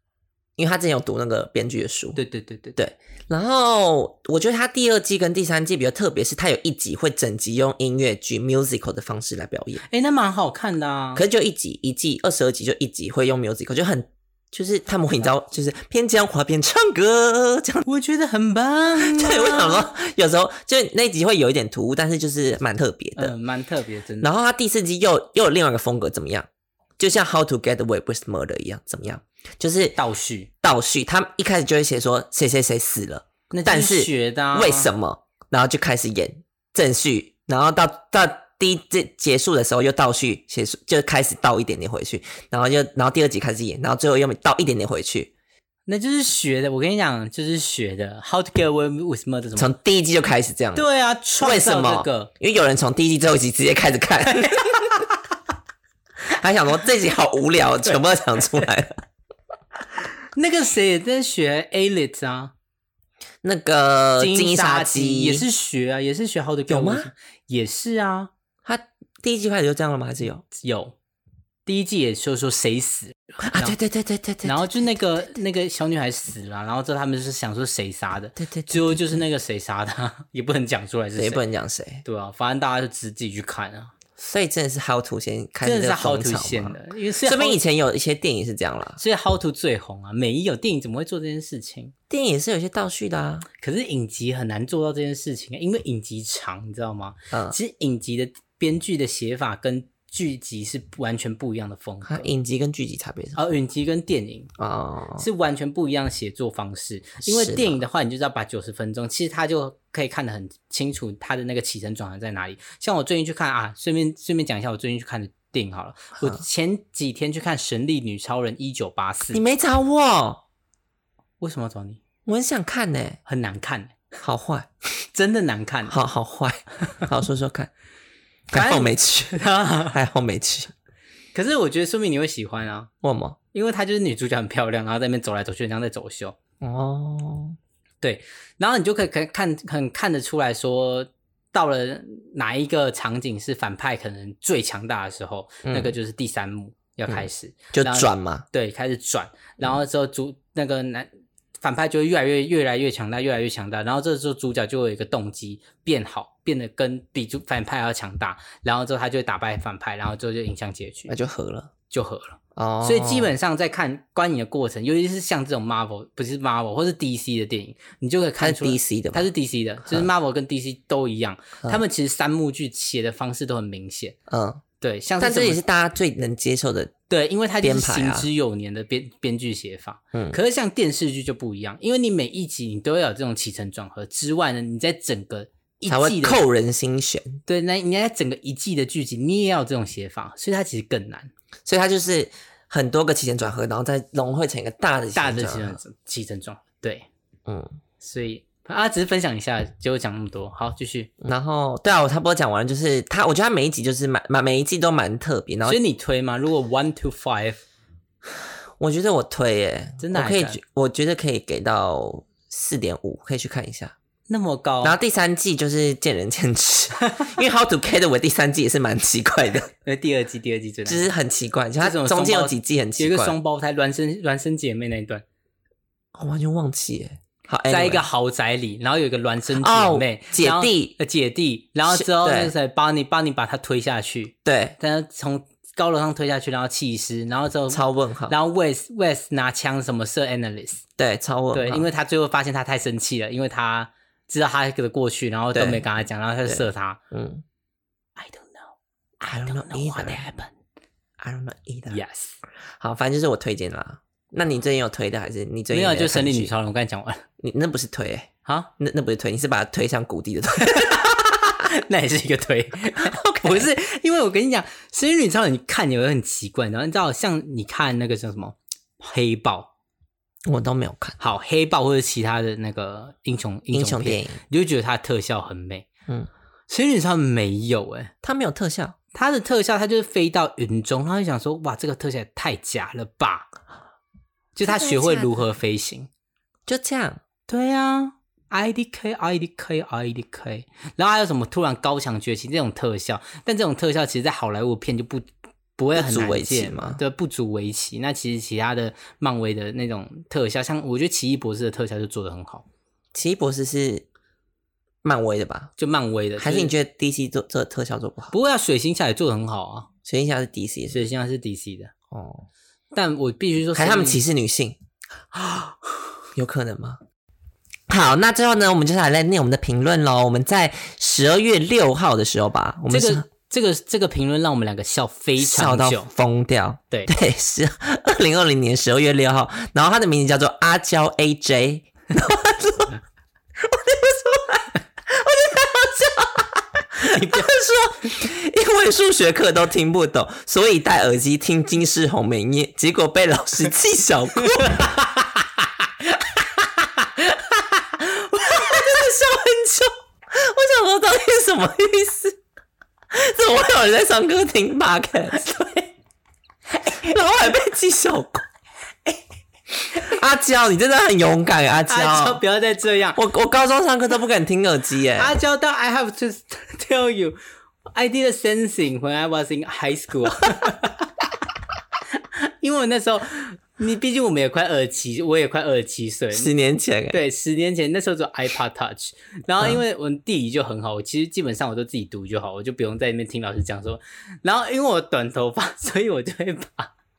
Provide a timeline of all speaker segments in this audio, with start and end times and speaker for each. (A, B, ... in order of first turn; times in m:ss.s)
0:00.6-0:02.2 A
0:02.2-0:02.8 B
0:02.8-0:09.8 A
0:09.9-0:11.2 B
0:11.2-0:17.8 A
0:17.8-0:19.9 B
0:19.0-0:23.4 A
0:23.2-0:24.3 B
0:24.2-0:26.5 A
0:27.0-0:30.0 A
0:30.0-0:30.5 B
0:30.6-0:45.3 A
0:33.5-0:34.9 B
0:45.9-0:49.7 B
0:49.6-0:50.8 A
0:50.8-0:52.3 B
0:51.4-0:54.9 A
0:54.3-0:55.1 B
0:56.3-0:59.0 A
1:00.4-1:02.5 B
1:03.4-1:05.4 A
1:04.2-1:08.3 B
1:06.7-1:07.1 A
1:08.6-1:10.4 A
1:10.6-1:11.0 B
1:11.6-1:13.8 B
1:13.4-1:14.7 A
1:14.4-1:21.4 B
1:18.4-1:19.2 A
1:21.2-1:22.0 A
1:22.0-1:23.9 B
1:24.2-1:29.0 A
1:25.6-1:27.6 B
1:29.0-1:31.9 B
1:32.1-1:33.5 A
1:33.6-1:42.3 B
1:42.1-1:43.4 A
1:43.4-1:44.5 B
1:44.6-1:45.3 A
1:45.2-1:59.4 B
1:47.2-1:47.8 A
1:59.3-2:00.4 A
2:01.4-2:02.0 B
2:02.3-2:03.2 A
2:03.3-2:04.0 B
2:04.2-2:04.7 A
2:05.1-2:06.0 B
2:05.9-2:07.7 A
2:08.5-2:09.4 A
2:08.5-2:10.0 B
2:09.9-2:10.7 A
2:11.3-2:12.9 B
2:13.0-2:13.4 A
2:13.5-2:16.4 B
2:16.6-2:17.6 A
2:18.0-2:31.1 B
2:25.6-2:25.9 A
2:27.1-2:28.5 A
2:31.6-2:41.1 B
2:41.1-2:41.7 A
2:41.9-2:54.2 B
2:42.6-2:43.4 A
2:48.4-2:49.3 A
2:54.3-2:54.6 A
2:54.8-2:55.6 B
2:55.2-2:56.9 A
2:57.1-3:06.4 B
2:57.6-2:58.3 A
3:05.9-3:07.4 A
3:07.5-3:11.3 B
3:11.6-3:15.8 A
3:15.1-3:17.1 B
3:17.5-3:17.8 A
3:18.0-3:21.1 B
3:21.2-3:25.8 A
3:25.6-3:27.6 B
3:28.8-3:34.0 A
3:30.0-3:30.6 B
3:34.3-3:35.0 B
3:34.8-3:39.7 A
3:39.8-3:41.1 B
3:40.9-3:43.4 A
3:41.8-3:45.2 B
3:46.1-3:48.0 A
3:47.7-4:00.8 B
3:49.5-3:51.0 A
3:51.9-3:52.5 A
3:54.4-3:54.8 A
3:57.7-3:58.4 A
4:01.0-4:01.9 A
4:01.5-4:07.0 B
4:05.5-4:05.9 A
4:06.5-4:07.4 A
4:08.2-4:10.5 B
4:09.3-4:10.2 A
4:11.2-4:12.0 A
4:11.9-4:12.4 B
4:12.8-4:16.5 A
4:15.7-4:17.2 B
4:17.4-4:21.4 A
4:18.4-4:18.7 B
4:20.6-4:29.7 B
4:23.0-4:23.7 A
4:30.5-4:31.2 A
4:31.2-4:35.9 B
4:33.7-4:34.4 A
4:36.7-4:38.1 B
4:38.2-4:39.0 A
4:39.1-4:43.5 B
4:44.6-4:46.1 B
4:44.6-4:45.3 A
4:46.7-4:47.2 A
4:47.5-5:02.6 B
4:56.0-4:57.0 A
5:03.1-5:04.0 A
5:05.0-5:05.7 A
5:05.8-5:06.7 B
5:06.4-5:08.3 A
5:08.3-5:09.9 B
5:10.0-5:11.0 A
5:10.9-5:11.9 B
5:12.1-5:12.5 A
5:12.9-5:14.2 B
5:13.8-5:14.8 A
5:16.4-5:17.0 A
5:17.9-5:23.2 A
5:22.9-5:26.1 B
5:25.4-5:33.0 A
5:33.6-5:45.0 A
5:37.1-5:37.5 B
5:44.6-5:47.9 B
5:48.2-5:52.4 A
5:48.4-5:48.8 B
5:53.1-5:55.8 A
5:56.9-5:58.4 A
6:00.0-6:02.4 A
6:01.9-6:03.2 B
6:03.2-6:05.4 A
6:05.2-6:07.4 B
6:07.9-6:11.1 B
6:12.1-6:16.5 B
6:16.3-6:17.2 A
6:17.1-6:26.9 B